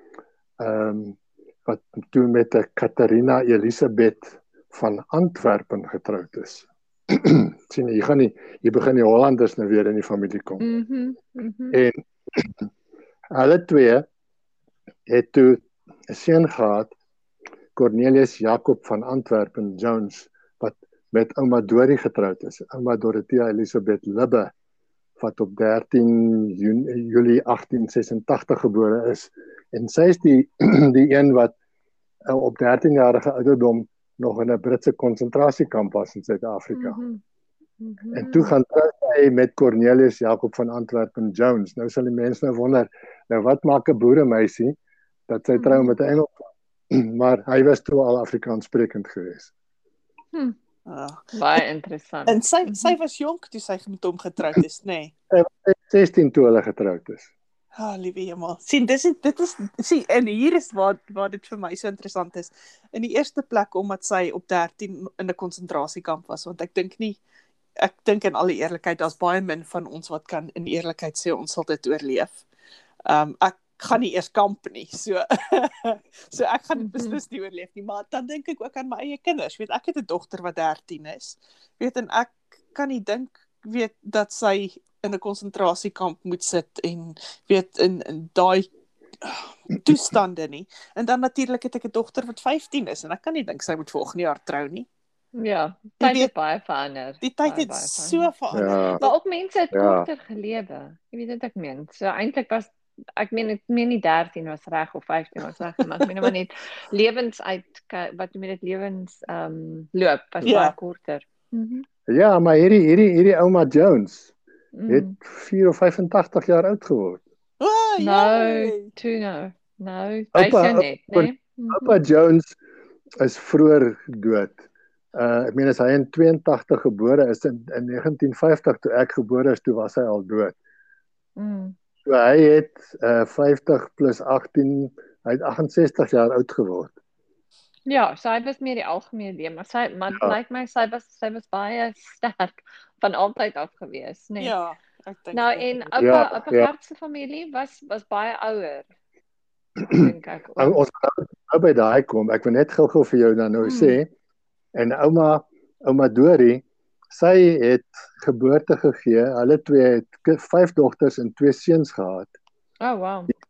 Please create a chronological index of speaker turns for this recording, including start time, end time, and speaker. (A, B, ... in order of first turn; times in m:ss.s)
0:00.6-0:10.6 A
0:10.6-0:11.8 B
0:11.7-0:12.7 A
0:13.3-0:14.1 A
0:15.1-0:16.9 A
0:17.8-0:24.5 A
0:25.2-0:31.5 A
0:32.3-0:37.0 A
0:36.7-0:37.2 B
0:37.8-0:38.5 B
0:38.1-0:44.8 A
0:45.3-0:49.5 A
0:45.6-0:45.9 B
0:50.9-0:51.3 C
0:51.3-0:53.0 B
0:52.3-0:55.1 C
0:55.3-0:57.3 A
0:57.8-1:07.2 C
1:07.8-1:12.4 C
1:13.1-1:28.7 C
1:16.8-1:17.2 B
1:29.2-1:34.9 C
1:35.4-1:38.3 B
1:36.0-1:36.3 C
1:37.2-1:39.1 C
1:38.5-1:39.0 A
1:39.0-1:51.8 B
1:39.7-1:40.1 A
1:46.0-1:46.3 C
1:50.4-1:50.8 C
1:52.1-1:54.3 A
1:54.8-1:55.1 B
1:54.9-1:57.2 A
1:57.6-1:58.9 C
1:58.0-2:02.0 B
2:00.3-2:02.6 A
2:03.2-2:04.6 A
2:05.1-2:10.6 A
2:11.4-2:11.8 B
2:12.0-2:16.9 A
2:17.9-2:24.5 B
2:24.4-2:25.9 C
2:25.3-2:28.9 B
2:26.0-2:26.7 A
2:29.8-2:34.1 A
2:29.9-2:30.8 B
2:33.6-2:34.0 B
2:34.7-2:42.3 A
2:42.8-2:43.3 B